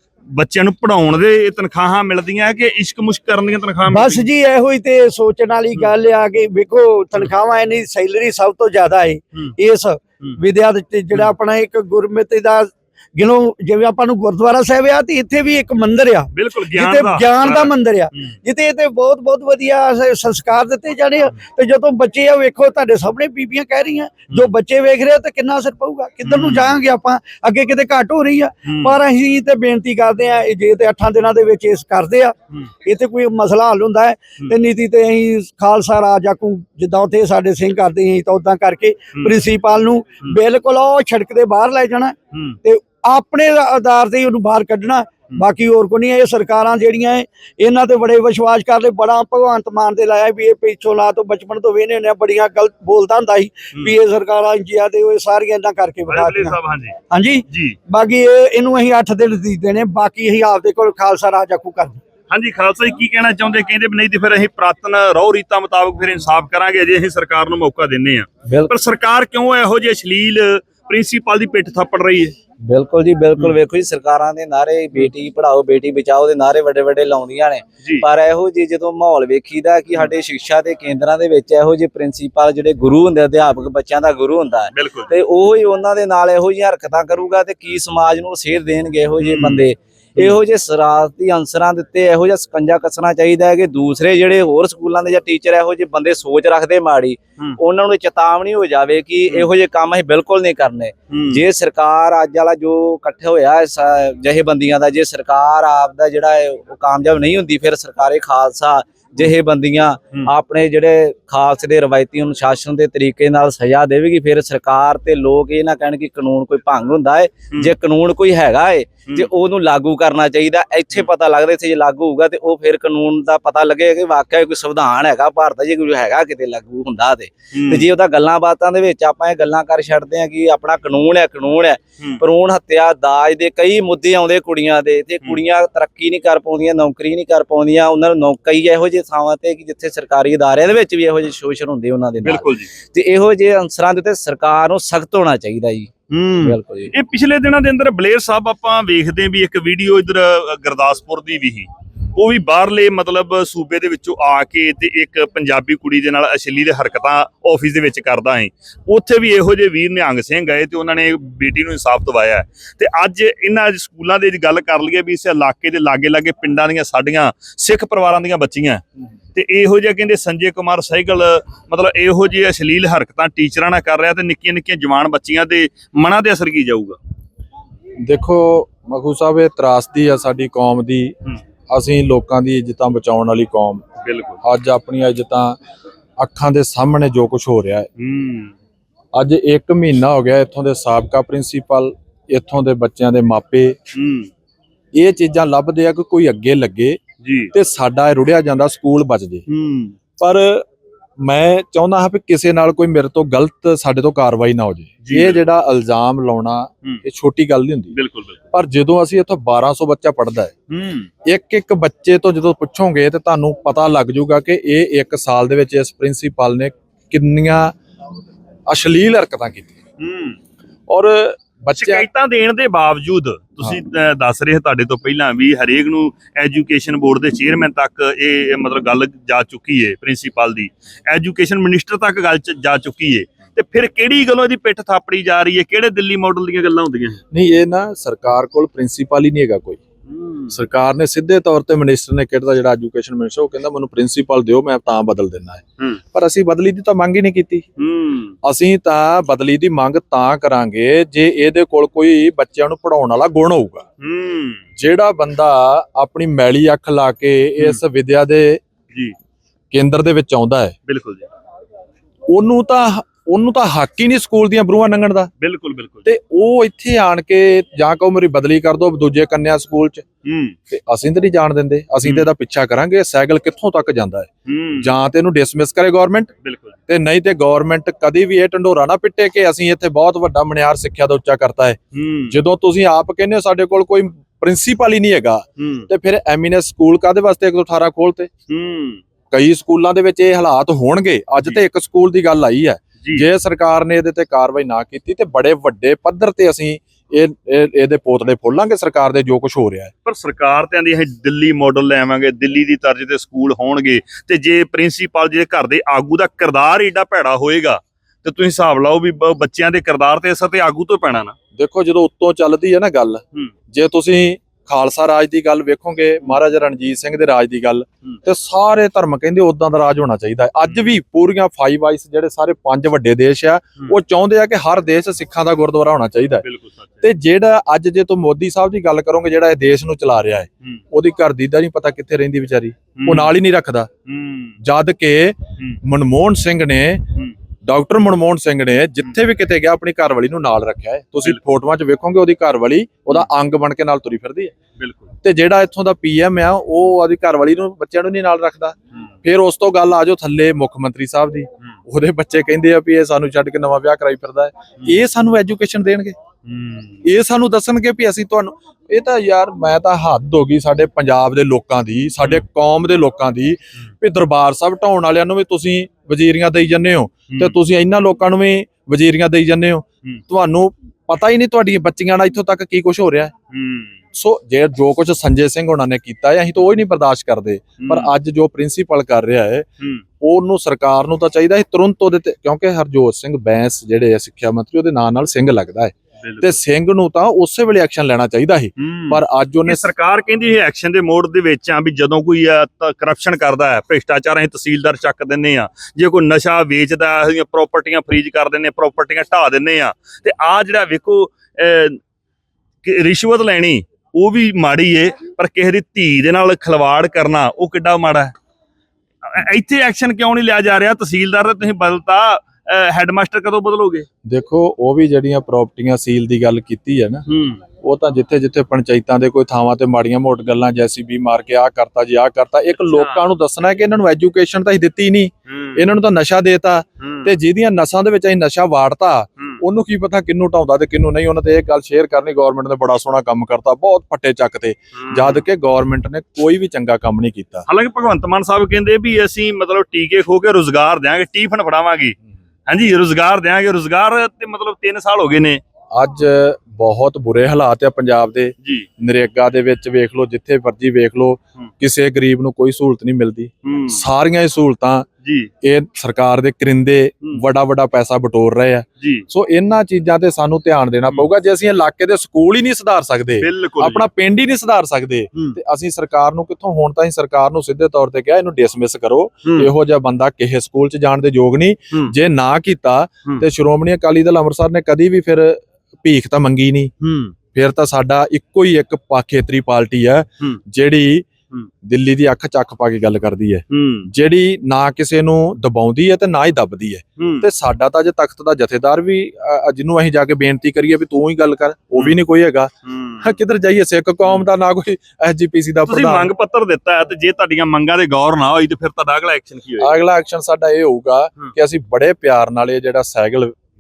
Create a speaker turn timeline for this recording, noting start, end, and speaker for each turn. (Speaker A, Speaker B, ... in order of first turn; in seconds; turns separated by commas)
Speaker A: 0.3-4.2, Speaker B: 3.9-56.6, Speaker A: 16.3-18.4, Speaker A: 26.2-26.8, Speaker A: 28.7-29.0, Speaker A: 56.1-57.0, Speaker B: 57.1-62.0, Speaker A: 57.5-57.8, Speaker A: 62.3-72.4, Speaker C: 68.5-68.7, Speaker C: 72.7-145.9, Speaker A: 84.7-85.1, Speaker A: 89.2-90.4, Speaker A: 101.1-101.4, Speaker A: 127.5-127.9, Speaker A: 142.2-142.7, Speaker A: 146.1-168.8, Speaker C: 146.4-146.9, Speaker A: 169.3-177.0, Speaker D: 178.0-181.1, Speaker D: 181.7-183.8, Speaker A: 184.0-184.4, Speaker D: 184.4-185.6, Speaker D: 186.2-187.9, Speaker A: 188.0-188.5, Speaker D: 189.1-193.8, Speaker A: 193.9-194.3, Speaker D: 194.9-197.0, Speaker A: 197.2-197.5, Speaker D: 197.5-199.4, Speaker A: 199.5-200.0, Speaker D: 200.2-200.7, Speaker D: 201.2-208.0, Speaker A: 205.0-205.4, Speaker A: 207.9-208.4, Speaker D: 208.5-210.5, Speaker A: 210.7-211.1, Speaker D: 211.2-217.8, Speaker D: 218.7-219.7, Speaker A: 220.0-220.4, Speaker D: 220.9-222.1, Speaker A: 221.8-237.2, Speaker D: 237.3-239.8, Speaker A: 240.1-240.6, Speaker D: 240.5-247.7, Speaker A: 247.8-248.4, Speaker D: 248.4-253.9, Speaker A: 254.0-254.6, Speaker D: 254.8-258.6, Speaker D: 259.7-260.8, Speaker A: 260.9-261.3, Speaker D: 262.3-265.3, Speaker A: 265.4-266.1, Speaker D: 266.1-270.1, Speaker A: 270.2-270.6, Speaker D: 270.7-276.3, Speaker A: 272.0-272.3, Speaker A: 274.5-274.9, Speaker A: 276.4-276.8, Speaker D: 276.9-288.3, Speaker A: 281.9-282.4, Speaker A: 285.6-285.9, Speaker A: 288.5-289.0, Speaker D: 289.3-299.9, Speaker A: 300.1-311.4, Speaker D: 311.6-326.4, Speaker A: 320.6-320.9, Speaker A: 326.4-327.0, Speaker D: 327.0-333.9, Speaker A: 333.0-333.4, Speaker A: 334.1-334.6, Speaker D: 334.6-337.1, Speaker D: 337.6-344.5, Speaker A: 344.8-345.1, Speaker D: 345.2-356.2, Speaker A: 356.5-357.0, Speaker D: 357.0-373.3, Speaker A: 367.3-367.6, Speaker A: 373.5-373.9, Speaker D: 374.1-379.7, Speaker A: 377.8-378.1, Speaker D: 380.2-389.9, Speaker A: 386.2-386.6, Speaker A: 388.8-402.0, Speaker A: 402.8-408.3, Speaker A: 409.2-414.1, Speaker D: 414.2-417.2, Speaker A: 417.3-417.6, Speaker D: 417.8-437.6, Speaker A: 422.9-423.2, Speaker A: 425.5-425.9, Speaker A: 427.0-427.3, Speaker A: 435.0-435.4, Speaker A: 437.7-442.2, Speaker A: 442.7-445.6, Speaker D: 445.9-455.1, Speaker A: 453.6-454.0, Speaker A: 455.2-455.5, Speaker D: 455.6-476.9, Speaker A: 463.4-464.1, Speaker A: 469.4-469.7, Speaker A: 477.0-477.3, Speaker D: 477.5-481.3, Speaker D: 481.8-496.3, Speaker A: 483.7-484.1, Speaker A: 487.2-487.5, Speaker A: 492.9-493.3, Speaker A: 495.9-499.9, Speaker D: 499.8-503.6